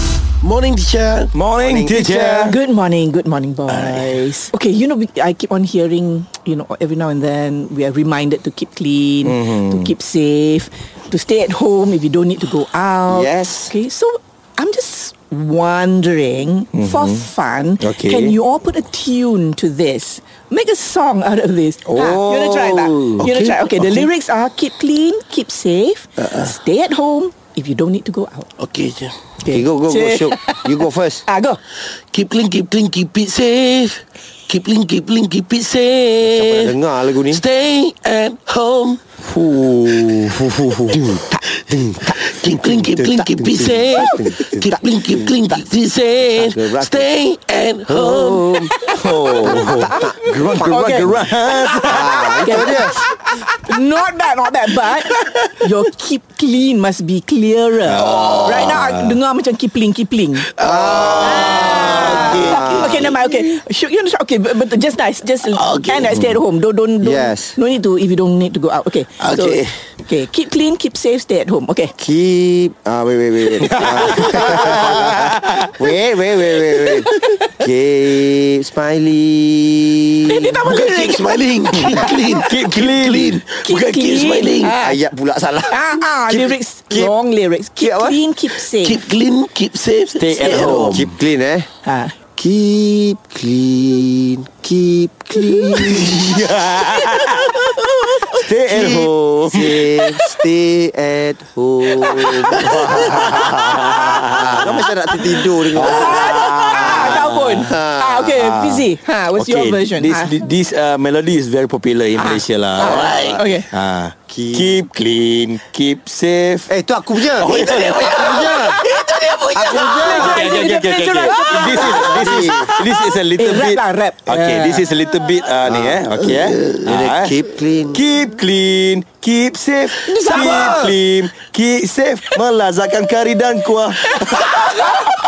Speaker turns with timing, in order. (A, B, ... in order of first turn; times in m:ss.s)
0:00.4-0:01.3 A
0:01.3-0:02.6 B
0:01.6-0:02.6 C
0:02.4-0:28.5 D
0:03.7-0:04.2 B
0:09.2-0:09.9 B
0:13.1-0:13.7 C
0:16.7-0:17.2 B
0:17.8-0:18.4 B
0:21.9-0:23.2 C
0:23.2-0:24.1 A
0:26.2-0:26.5 A
0:28.6-0:29.2 A
0:29.4-0:31.6 D
0:29.5-0:31.2 C
0:32.0-0:39.1 A
0:36.2-0:37.4 C
0:39.2-0:41.1 B
0:39.8-0:45.6 C
0:41.5-0:48.9 A
0:46.2-0:47.1 C
0:47.9-0:48.7 C
0:48.8-0:52.8 B
0:48.8-1:00.5 D
0:49.4-0:50.7 C
0:51.8-0:53.1 C
0:57.8-0:59.2 B
0:58.0-0:58.8 A
1:00.4-1:03.2 A
1:00.6-1:03.2 C
1:01.2-1:11.9 D
1:05.4-1:06.4 A
1:07.0-1:07.6 C
1:09.2-1:09.7 A
1:12.0-1:20.7 C
1:13.6-1:15.6 B
1:20.2-1:22.4 D
1:20.6-1:24.8 A
1:21.7-1:23.4 B
1:23.6-1:25.0 D
1:24.8-1:27.1 C
1:25.7-1:29.0 D
1:27.8-1:28.2 C
1:28.7-1:31.0 A
1:30.1-1:31.1 B
1:30.4-1:31.7 C
1:31.8-1:32.2 D
1:32.4-1:36.4 C
1:35.8-1:37.8 B
1:36.8-1:38.4 D
1:38.3-1:39.9 B
1:38.7-1:48.9 C
1:42.1-1:44.3 D
1:42.5-1:44.8 B
1:45.7-1:50.3 D
1:45.7-1:47.7 B
1:49.3-1:56.7 B
1:52.2-1:53.7 D
1:52.8-1:53.6 C
1:52.9-1:53.5 A
1:54.3-1:54.8 C
1:56.7-1:58.8 C
1:57.4-2:00.2 A
1:57.4-1:58.0 B
1:58.9-2:04.9 D
1:59.5-2:00.6 C
2:00.0-2:07.4 B
2:01.6-2:02.7 C
2:05.7-2:08.0 C
2:07.9-2:14.8 B
2:10.1-2:10.8 A
2:10.2-2:10.9 C